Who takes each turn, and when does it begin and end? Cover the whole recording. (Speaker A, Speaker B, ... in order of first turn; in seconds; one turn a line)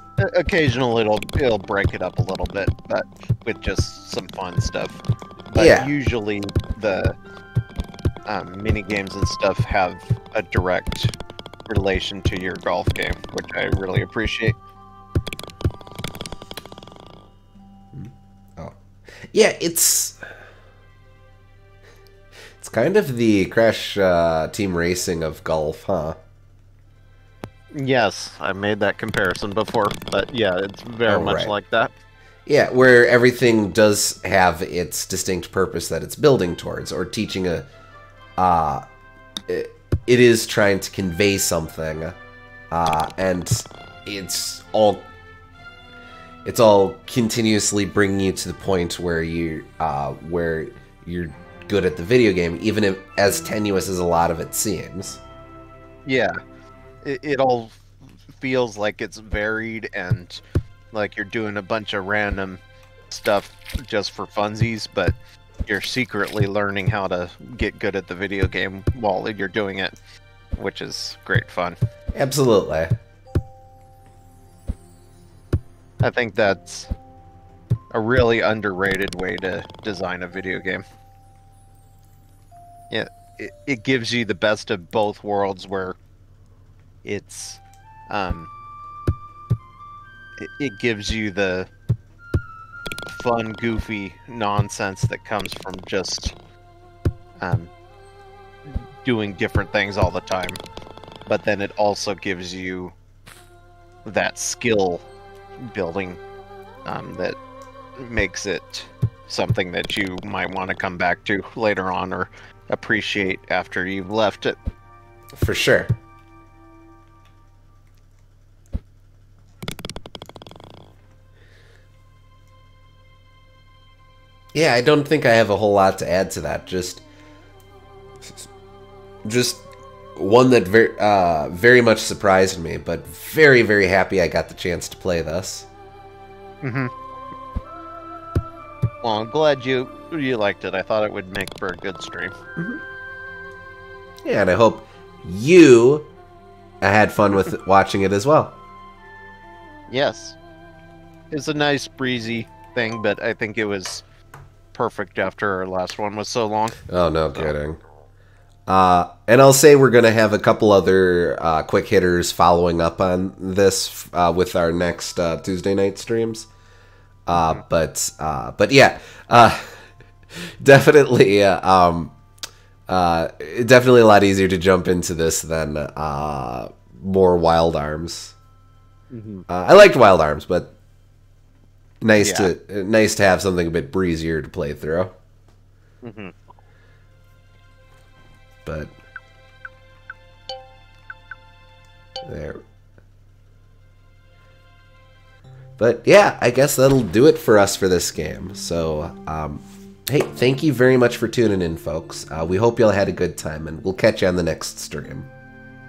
Speaker A: 0.2-7.2
Speaker B: 5.5-5.9
Speaker A: 8.3-11.2
Speaker A: 11.7-14.6
Speaker B: 17.9-20.4
Speaker B: 22.6-26.2
Speaker A: 27.7-31.9
Speaker B: 31.1-31.5
Speaker B: 32.5-37.7
Speaker B: 38.4-38.8
Speaker B: 39.5-42.2
Speaker B: 42.7-45.1
Speaker B: 46.4-55.2
Speaker A: 56.0-56.3
Speaker A: 57.0-65.1
Speaker A: 65.7-69.9
Speaker A: 70.6-71.8
Speaker B: 72.1-72.9
Speaker A: 76.0-76.9
Speaker A: 77.9-80.8
Speaker A: 82.9-86.0
Speaker A: 87.0-88.5
Speaker A: 90.4-91.7
Speaker A: 93.1-96.3
Speaker A: 97.4-97.7
Speaker A: 98.6-100.6
Speaker A: 101.3-102.9
Speaker A: 104.0-105.0
Speaker A: 105.6-106.2
Speaker A: 106.8-107.4
Speaker A: 108.0-114.6
Speaker B: 115.3-115.9
Speaker B: 124.5-127.0
Speaker B: 128.2-128.5
Speaker B: 129.2-135.7
Speaker A: 136.6-136.9
Speaker A: 139.0-142.3
Speaker B: 142.6-142.8
Speaker B: 144.2-146.1
Speaker B: 146.8-148.6
Speaker A: 149.9-150.4
Speaker A: 151.3-154.0
Speaker A: 154.7-156.8
Speaker B: 156.9-157.8
Speaker B: 158.7-166.5
Speaker B: 167.3-172.2
Speaker A: 167.3-167.6
Speaker B: 172.9-178.3
Speaker A: 179.1-179.4
Speaker B: 179.5-180.7
Speaker B: 182.0-185.1
Speaker A: 182.2-182.5
Speaker A: 186.0-186.3
Speaker B: 188.6-188.9
Speaker B: 192.2-192.6
Speaker B: 195.8-205.3